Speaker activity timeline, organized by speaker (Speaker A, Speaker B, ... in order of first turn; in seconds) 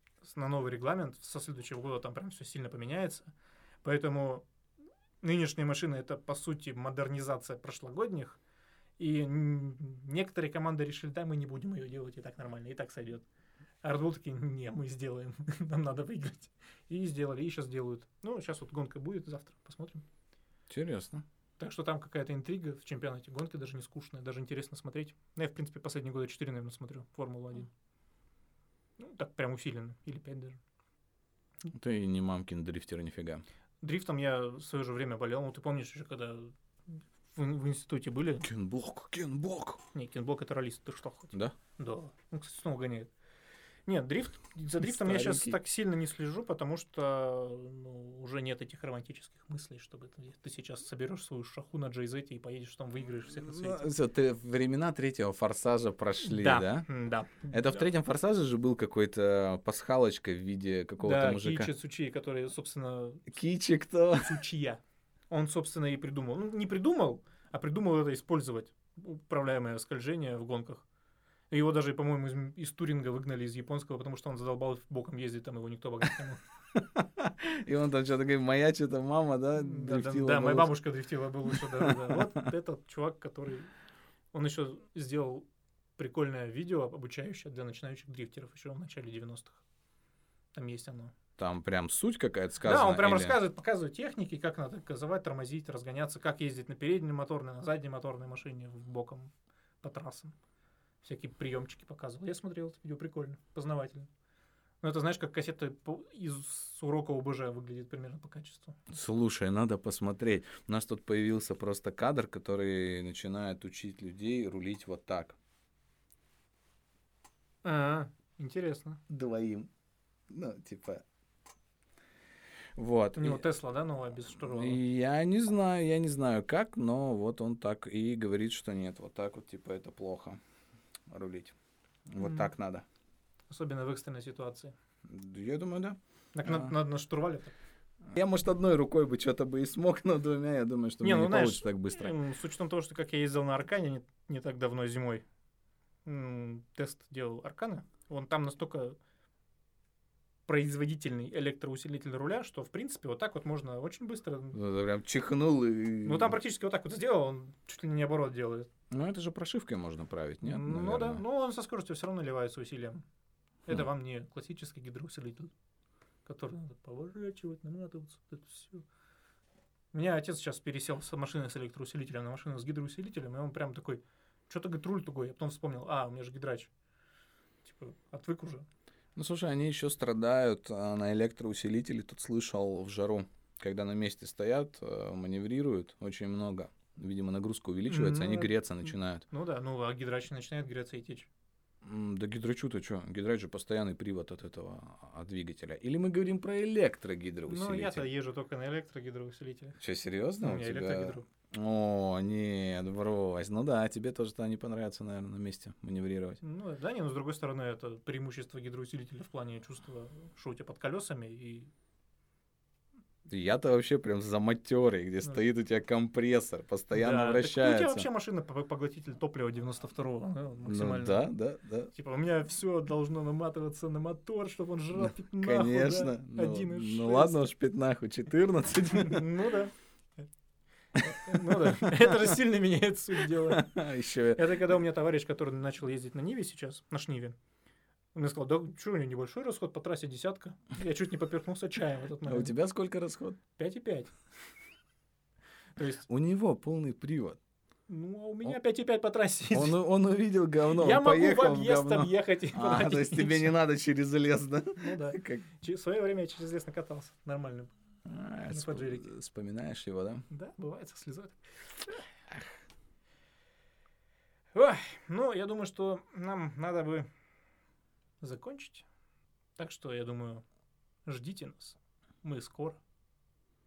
Speaker A: 0.2-3.3, 3.8-4.4, 5.2-8.4, 9.0-13.2, 13.8-20.1, 21.6-27.7, 29.0-30.6, 33.8-36.5, 37.3-38.5, 39.9-43.1, 43.9-53.9, 56.2-57.9, 61.0-63.3, 64.2-70.8, 71.5-76.4, 79.6-83.7, 84.3-85.5, 86.0-89.6, 90.5-91.1, 92.6-99.3, 99.8-100.3, 101.0-104.1, 104.8-108.8, 117.6-119.0, 123.2-124.8, 132.2-132.5, 133.5-134.7, 136.3-137.5, 141.0-145.2, 146.1-149.0, 150.5-154.6, 156.0-158.7, 160.4-163.0, 163.7-165.5, 166.2-168.9, 169.9-176.7, 177.6-178.7, 187.9-188.6, 189.3-191.3, 197.5-199.8, 200.4-201.3, 206.4-211.7, 216.9-221.3, 221.9-227.4, 228.9-229.7, 231.0-233.8, 234.4-237.3, 238.1-242.5, 243.6-244.1, 245.8-246.1, 247.9-249.8, 250.7-253.5, 254.8-257.7, 258.5-259.1, 260.3-261.4, 264.5-267.1, 268.2-268.9, 269.6-270.4, 271.1-272.8
Speaker B: 20.7-21.2, 31.7-33.4, 38.4-39.8, 44.8-45.6, 53.4-56.9, 57.5-61.7, 63.3-64.4, 76.8-80.7, 81.5-82.3, 91.4-93.4, 108.9-115.4, 119.1-119.7, 120.3-121.0, 122.8-123.4, 124.4-130.4, 131.1-131.6, 132.1-132.8, 135.1-136.7, 138.1-142.2, 154.5-156.4, 158.9-161.2, 179.2-189.2, 191.8-198.0, 199.8-206.4, 213.3-218.1, 220.7-221.9, 224.9-229.3, 231.4-232.2, 233.2-234.7, 242.3-243.4, 246.1-247.4, 249.5-255.4, 258.1-260.2